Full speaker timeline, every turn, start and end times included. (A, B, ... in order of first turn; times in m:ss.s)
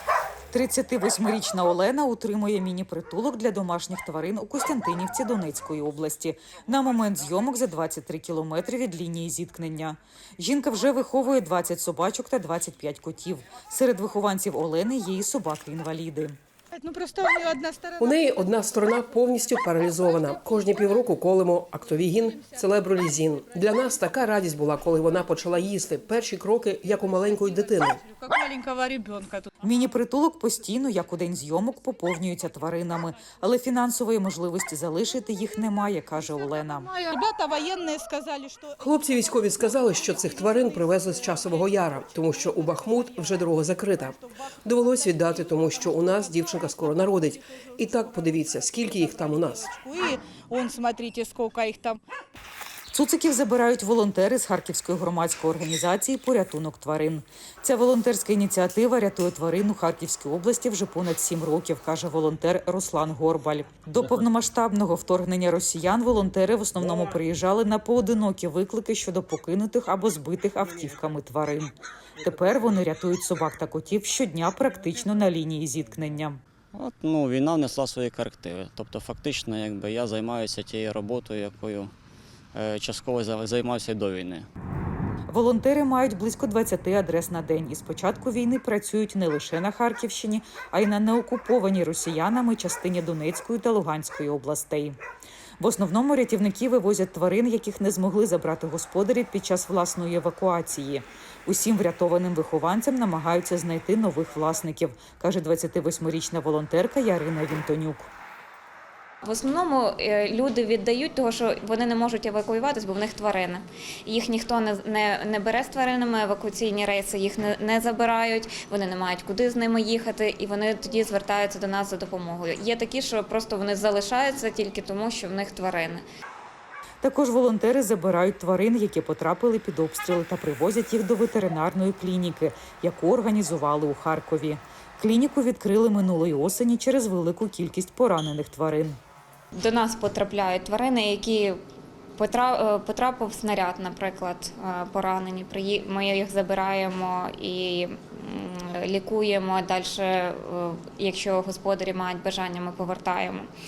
0:00.5-0:16.4 A
0:16.7-0:18.5 B
0:18.0-0:28.0 C
0:19.8-0:20.9 B
0:22.0-0:23.0 B
0:27.0-0:29.5 B
0:29.6-0:36.9 A
0:36.7-0:52.0 B
0:38.8-0:49.7 C
0:52.9-1:16.4 A
1:16.7-1:21.9 D
1:22.5-1:24.5 D
1:25.3-1:35.0 A
1:35.6-1:48.1 A
1:49.2-2:06.0 E
2:07.0-2:19.0 A
2:19.6-2:21.6 E
2:22.2-2:33.5 E